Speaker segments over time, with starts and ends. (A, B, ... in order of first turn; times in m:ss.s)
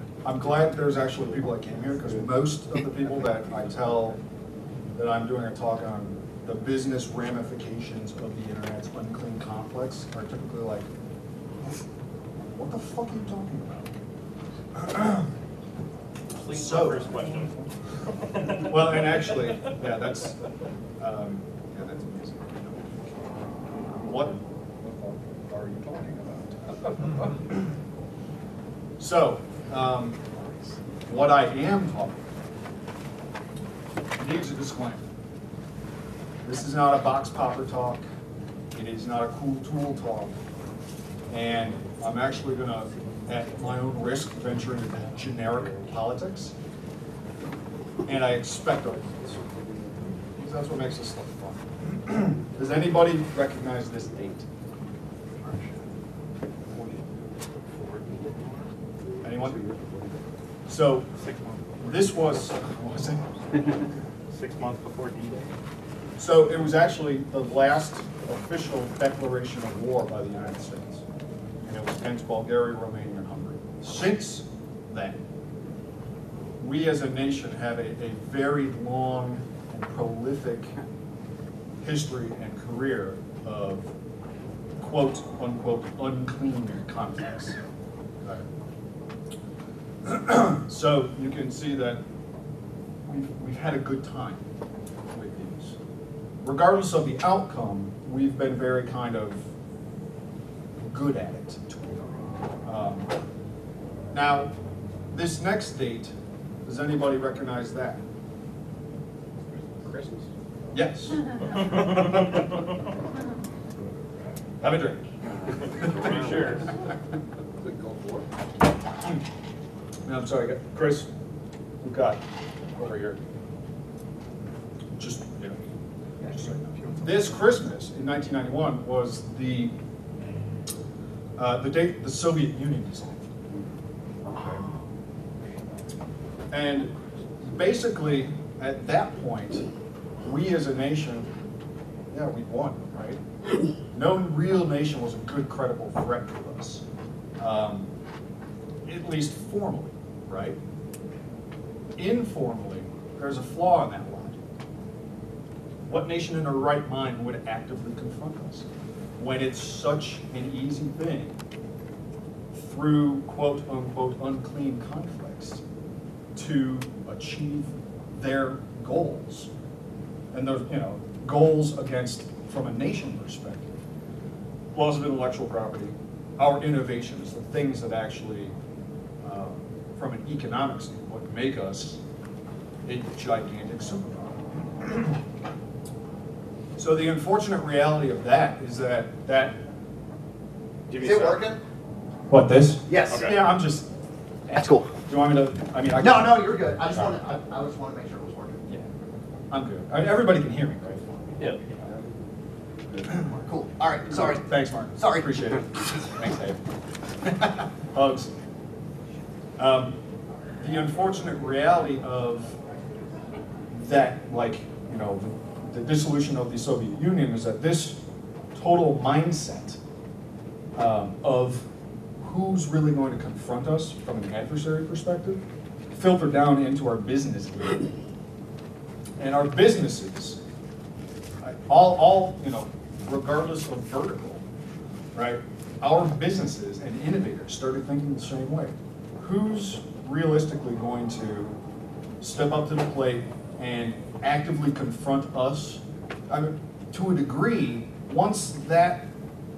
0:00.2-0:04.2 A
0:05.0-0:10.9 A
0:12.5-0:14.0 A
0:14.7-0:15.3 A
0:16.4-0:17.7 B
0:16.5-0:17.1 A
0:18.5-0:20.4 A
0:21.0-0:23.3 A
0:23.9-0:27.3 A
0:29.0-0:30.4 A
0:31.0-0:32.3 A
0:34.2-0:35.1 A
0:36.4-0:38.0 A
0:38.7-0:40.4 A
0:41.3-0:46.5 A
0:48.1-0:49.5 A
0:50.3-0:54.5 A
0:55.4-0:55.8 B
0:56.7-0:58.7 B
0:59.2-0:59.6 A
0:59.3-1:00.2 B
1:00.7-1:01.1 A
1:01.2-1:01.8 B
1:01.8-1:03.3 A
1:04.3-1:05.5 B
1:06.2-1:11.0 A
1:11.6-1:15.2 A
1:16.6-1:20.7 A
1:21.8-1:23.9 A
1:24.8-1:27.6 A
1:30.0-1:32.0 A
1:33.0-1:34.4 A
1:35.1-1:35.8 A
1:36.4-1:39.4 A
1:40.8-1:42.1 A
1:42.6-1:43.1 A
1:44.1-1:44.5 A
1:45.1-1:46.1 A
1:46.6-1:48.0 A
1:49.5-1:50.3 B
1:50.7-1:52.4 A
1:54.6-1:55.1 A
1:55.6-1:56.8 B
1:55.7-1:56.5 A
1:57.6-1:58.3 B
2:00.0-2:01.1 A
2:01.8-2:02.2 A
2:02.7-2:03.2 A
2:05.0-2:05.6 A
2:06.2-2:09.7 A
2:11.4-2:13.3 A
2:16.5-2:19.6 A
2:20.2-2:21.3 A
2:22.1-2:23.2 A
2:23.9-2:26.8 A
2:27.4-2:27.9 A
2:28.8-2:30.6 A
2:32.0-2:34.4 A
2:35.9-2:38.6 A
2:39.2-2:41.4 A
2:42.5-2:45.6 A
2:46.3-2:49.5 A
2:50.3-2:53.7 A
2:54.7-2:58.5 A
2:59.2-3:02.0 A
3:02.8-3:05.1 A
3:06.8-3:09.6 A
3:10.9-3:11.6 C
3:12.3-3:13.9 A
3:12.9-3:13.3 C
3:14.5-3:14.9 C
3:15.0-3:16.4 A
3:16.0-3:18.6 C
3:19.5-3:21.3 A
3:23.0-3:25.5 C
3:24.1-3:26.6 A
3:27.2-3:28.3 A
3:29.6-3:30.0 A
3:30.6-3:32.6 A
3:33.7-3:38.0 A
3:38.5-3:39.8 A
3:40.8-3:41.7 A
3:42.2-3:45.4 A
3:45.9-3:47.9 A
3:49.2-3:50.4 A
3:51.4-3:54.4 A
3:55.1-4:01.6 A
4:02.2-4:09.0 A